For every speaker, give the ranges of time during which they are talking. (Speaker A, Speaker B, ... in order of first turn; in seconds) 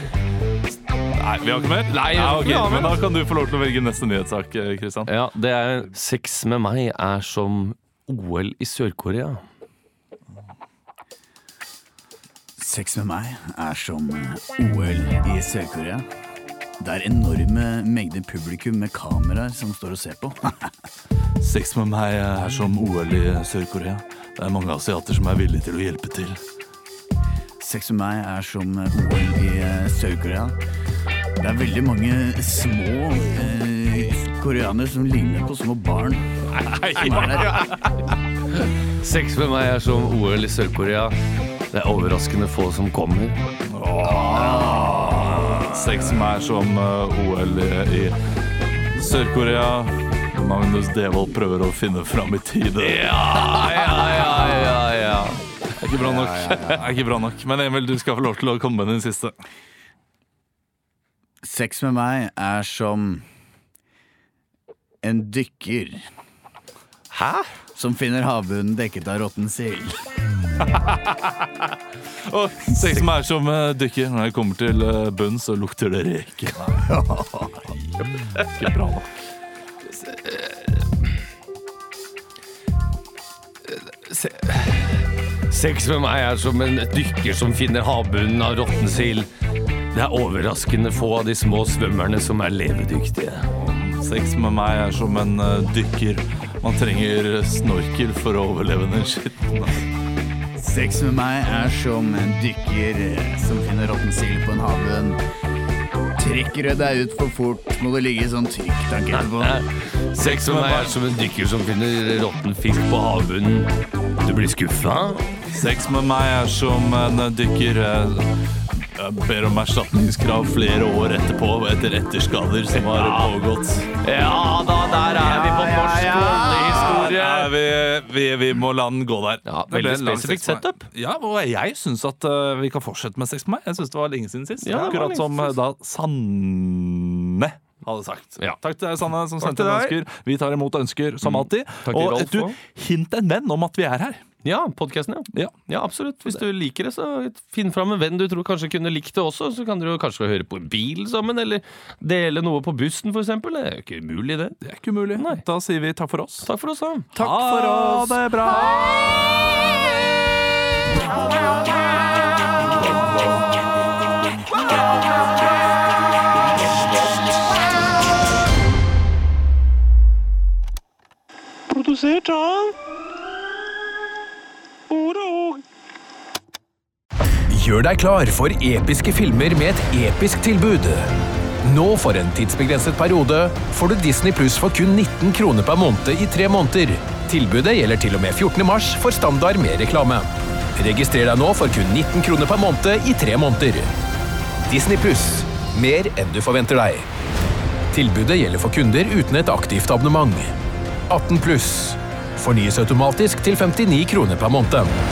Speaker A: 1.2-5.1, 21.4-26.4, 43.7-48.2, 49.0-53.0, 55.8-59.3, 72.3-76.9, 78.4-79.1, 93.5-99.9, 110.2-110.9, 115.5-123.9, 126.7-144.2, 154.6-156.5, 157.1-159.2, 171.7-172.7, 174.9-175.6
Speaker B: 1.9-3.0, 5.1-9.4, 36.6-37.9, 39.0-41.2, 41.7-43.4, 52.8-55.4, 67.1-67.5, 72.7-73.1, 80.0-80.8, 83.7-89.3, 89.9-93.5, 109.1-113.7, 114.2-115.3, 122.7-123.4, 124.0-127.5, 129.5-130.8, 134.6-135.5, 139.4-140.0, 141.2-142.6, 144.4-154.6, 155.2-155.4, 156.4-158.2
Speaker C: 12.6-16.1, 16.8-20.7, 27.6-30.6, 31.4-36.3, 37.0-37.6, 44.0-46.0, 56.0-57.0, 61.4-63.2, 65.0-66.0, 67.8-70.1, 76.9-77.7, 100.6-105.2, 106.2-109.6, 125.5-126.7
Speaker D: 177.5-181.1, 181.6-193.9, 194.7-197.1, 197.9-200.6, 201.1-204.9